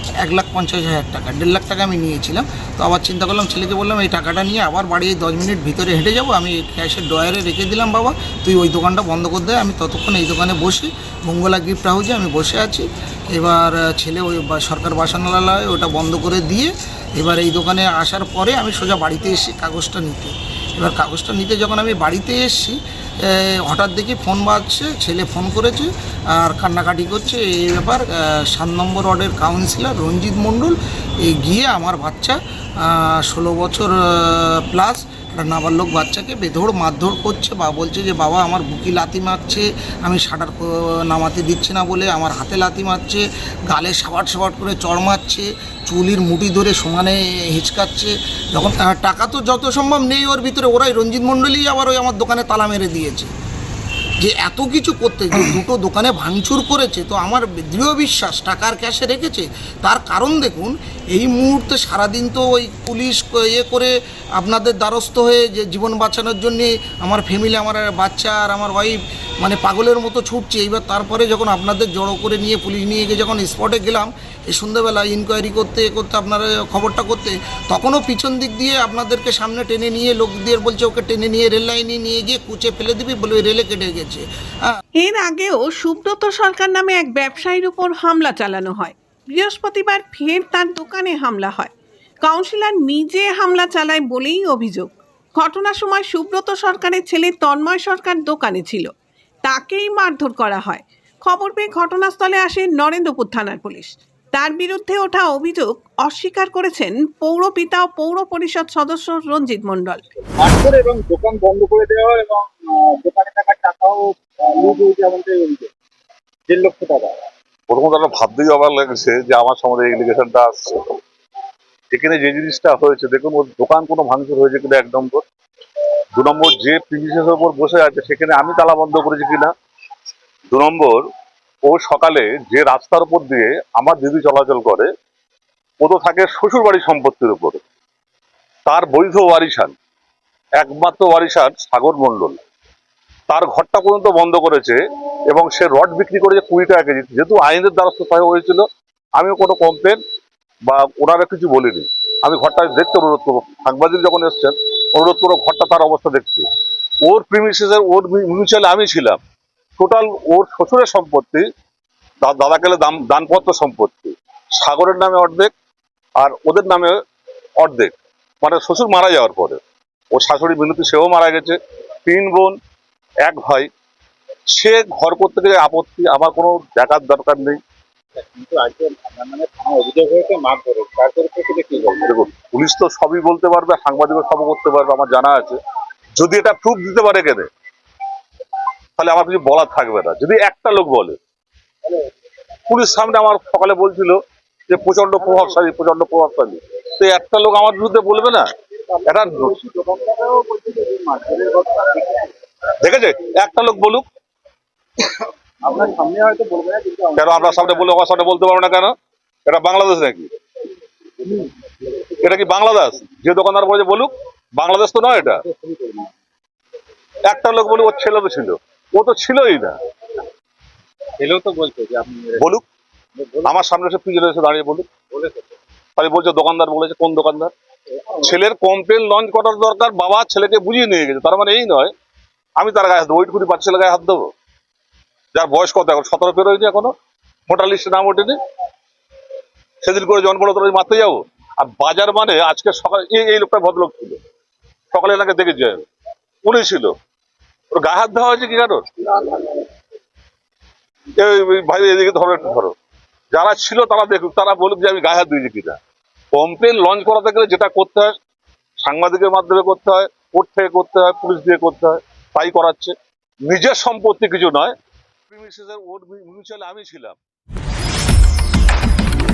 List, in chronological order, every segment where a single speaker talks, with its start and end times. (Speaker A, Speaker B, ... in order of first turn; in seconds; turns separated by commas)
Speaker A: 0.2-53.3, Speaker A: 54.2-84.8, Speaker B: 85.0-91.7, Speaker B: 92.2-98.9, Speaker B: 99.4-110.1, Speaker C: 110.4-115.7, Speaker C: 116.5-117.2, Speaker D: 117.7-121.0, Speaker D: 121.9-125.2, Speaker D: 126.2-129.5, Speaker D: 130.5-131.0, Speaker D: 131.7-134.9, Speaker D: 135.8-137.6, Speaker D: 138.7-139.7, Speaker D: 140.6-142.4, Speaker D: 143.3-144.8, Speaker D: 145.3-148.6, Speaker D: 149.2-150.0, Speaker D: 150.7-156.5, Speaker D: 157.1-159.2, Speaker D: 159.8-161.4, Speaker D: 162.2-165.5, Speaker D: 166.2-167.0, Speaker D: 167.6-169.6, Speaker D: 170.1-172.6, Speaker D: 173.2-173.7, Speaker D: 174.5-177.6, Speaker C: 178.2-182.1, Speaker D: 182.0-185.6, Speaker D: 186.2-187.5, Speaker D: 189.0-191.2, Speaker D: 192.7-198.5, Speaker D: 199.1-199.6, Speaker C: 199.3-202.3, Speaker D: 202.8-204.1, Speaker C: 205.7-207.9, Speaker D: 207.2-208.9, Speaker D: 209.5-210.3, Speaker D: 212.2-215.4, Speaker C: 215.4-216.1, Speaker D: 217.2-219.8, Speaker C: 221.2-222.4, Speaker D: 222.4-222.6, Speaker C: 223.2-223.6, Speaker D: 223.4-224.9, Speaker C: 225.1-225.4, Speaker D: 226.0-227.5, Speaker D: 228.2-231.9, Speaker D: 232.6-234.3, Speaker D: 235.3-236.9, Speaker D: 237.5-238.4, Speaker D: 239.8-244.2, Speaker D: 244.9-245.8, Speaker D: 246.4-246.9, Speaker D: 247.8-249.5, Speaker D: 251.2-252.7, Speaker D: 253.3-255.8, Speaker D: 256.3-258.1, Speaker D: 258.8-262.9, Speaker D: 263.5-264.7, Speaker D: 265.3-267.2